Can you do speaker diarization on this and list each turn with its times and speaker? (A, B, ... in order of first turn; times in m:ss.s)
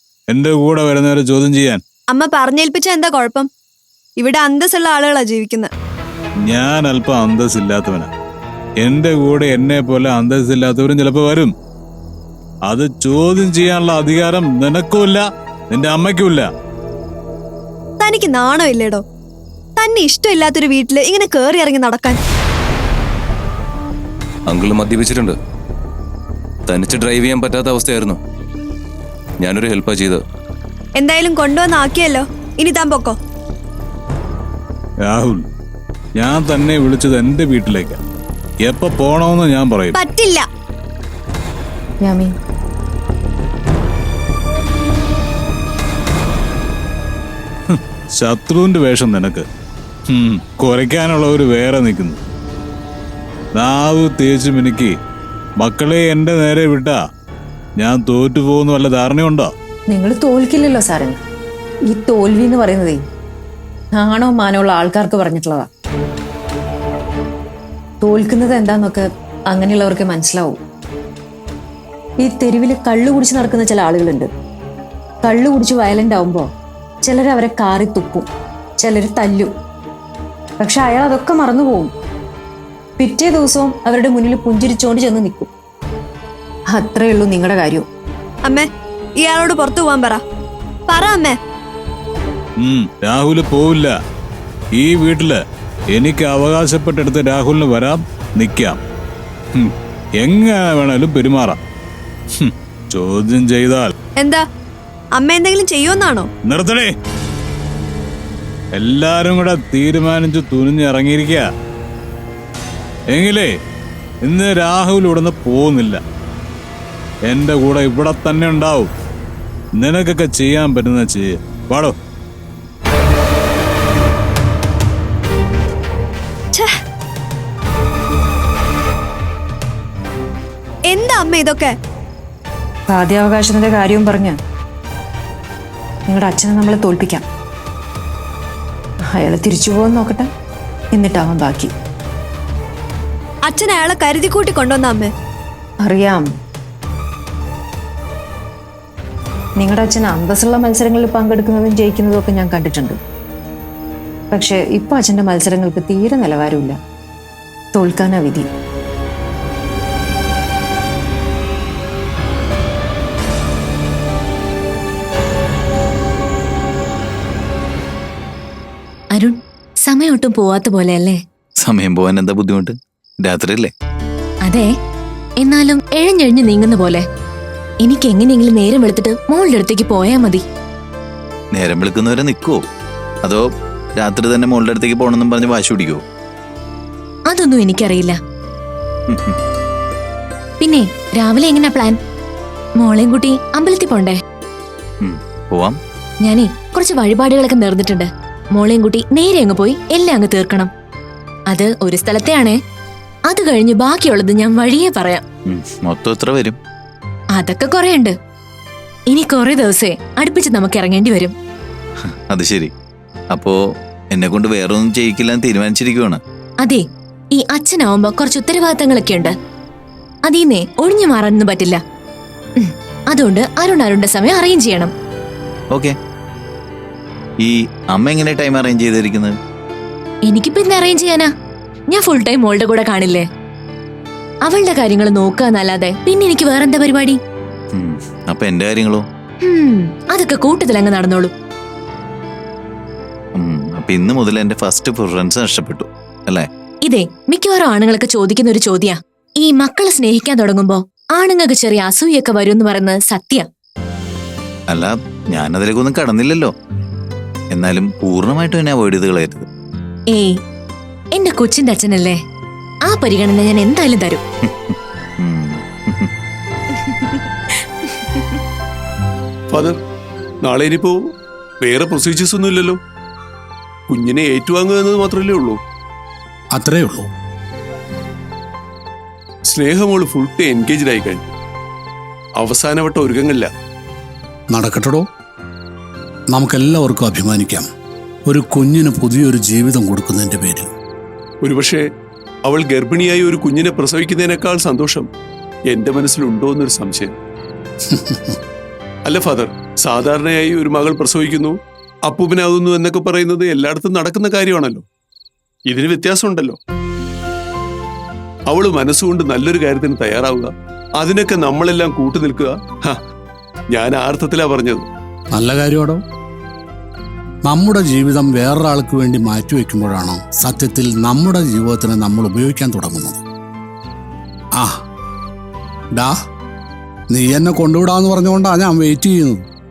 0:00.3-0:01.8 A
0:02.1-0:03.5 B
0:04.2-0:05.7 B
0:06.5-0:08.1 A
0:08.8-0:11.5 A
0:12.7-0:16.5 A
0:18.0-0:19.0 B
0:19.8-0:22.2 B
0:24.5-0:25.3 C
0:26.7-0:28.2 C
0:29.4-0:30.2 C
0:31.0-0:33.2 B
0:35.1-0:35.4 A
0:36.2-0:38.0 A
0:38.7-0:40.0 A
0:39.9-0:40.5 B
0:42.0-0:42.3 D
0:47.7-0:49.4 A
0:50.1-0:52.2 A
0:53.6-0:54.9 A
0:55.6-0:57.0 A
0:57.8-0:59.5 A
0:59.9-1:01.2 D
1:01.9-1:03.0 D
1:03.9-1:05.7 D
1:08.0-1:10.6 D
1:12.2-1:14.3 D
1:15.2-1:16.5 D
1:17.0-1:18.2 D
1:18.8-1:19.5 D
1:20.6-1:21.9 D
1:23.0-1:25.5 D
1:26.7-1:27.8 D
1:29.2-1:30.2 B
1:30.9-1:31.4 B
1:32.6-1:33.9 A
1:34.8-1:35.4 A
1:35.9-1:38.8 A
1:39.5-1:41.6 A
1:42.4-1:43.9 A
1:44.2-1:44.4 B
1:45.1-1:46.3 B
1:46.5-1:46.9 A
1:48.8-1:51.5 A
1:53.1-1:53.5 A
1:54.2-1:56.0 A
1:57.3-1:58.9 A
1:59.8-2:01.9 A
2:10.9-2:11.7 B
2:12.9-2:14.4 D
2:16.1-2:17.2 D
2:19.1-2:20.3 D
2:20.9-2:21.7 D
2:23.4-2:25.1 B
2:25.8-2:26.2 D
2:29.6-2:33.0 D
2:34.3-2:36.8 D
2:37.7-2:38.5 D
2:49.1-2:51.2 E
2:51.6-2:53.7 F
2:55.4-2:57.0 E
2:57.8-3:00.4 E
3:01.6-3:02.6 F
3:04.0-3:06.0 F
3:07.3-3:08.1 E
3:10.6-3:12.0 E
3:12.8-3:14.1 E
3:15.0-3:15.8 F
3:16.2-3:20.7 E
3:21.5-3:22.5 E
3:23.3-3:25.2 E
3:25.5-3:26.6 F
3:27.3-3:28.1 E
3:29.1-3:31.3 E
3:32.3-3:32.7 F
3:34.1-3:36.2 F
3:36.6-3:39.3 E
3:40.3-3:41.8 E
3:42.6-3:44.9 E
3:47.4-3:49.3 F
3:50.3-3:51.3 E
3:51.9-3:53.2 E
3:54.4-3:57.2 E
3:57.7-3:59.0 F
3:59.4-4:01.3 E
4:03.4-4:06.5 F
4:06.8-4:13.4 E
4:14.7-4:16.5 F
4:17.5-4:19.5 F
4:21.2-4:22.2 E
4:22.9-4:24.2 E
4:24.7-4:26.1 F
4:29.5-4:29.8 G
4:30.4-4:31.0 G
4:31.6-4:32.8 G
4:33.9-4:35.6 G
4:36.5-4:37.1 H
4:39.5-4:41.2 G
4:42.4-4:43.5 G
4:44.5-4:45.0 H
4:46.3-4:47.7 H
4:48.3-4:50.7 H
4:51.4-4:51.8 G
4:52.4-4:55.1 G
4:55.7-4:57.1 G
4:57.9-4:58.4 H
4:59.0-5:01.5 G
5:02.1-5:04.8 G
5:05.7-5:06.6 G
5:08.5-5:10.5 G
5:11.0-5:12.5 G
5:13.7-5:14.8 G
5:15.3-5:16.0 H
5:17.5-5:23.2 H
5:27.1-5:29.4 H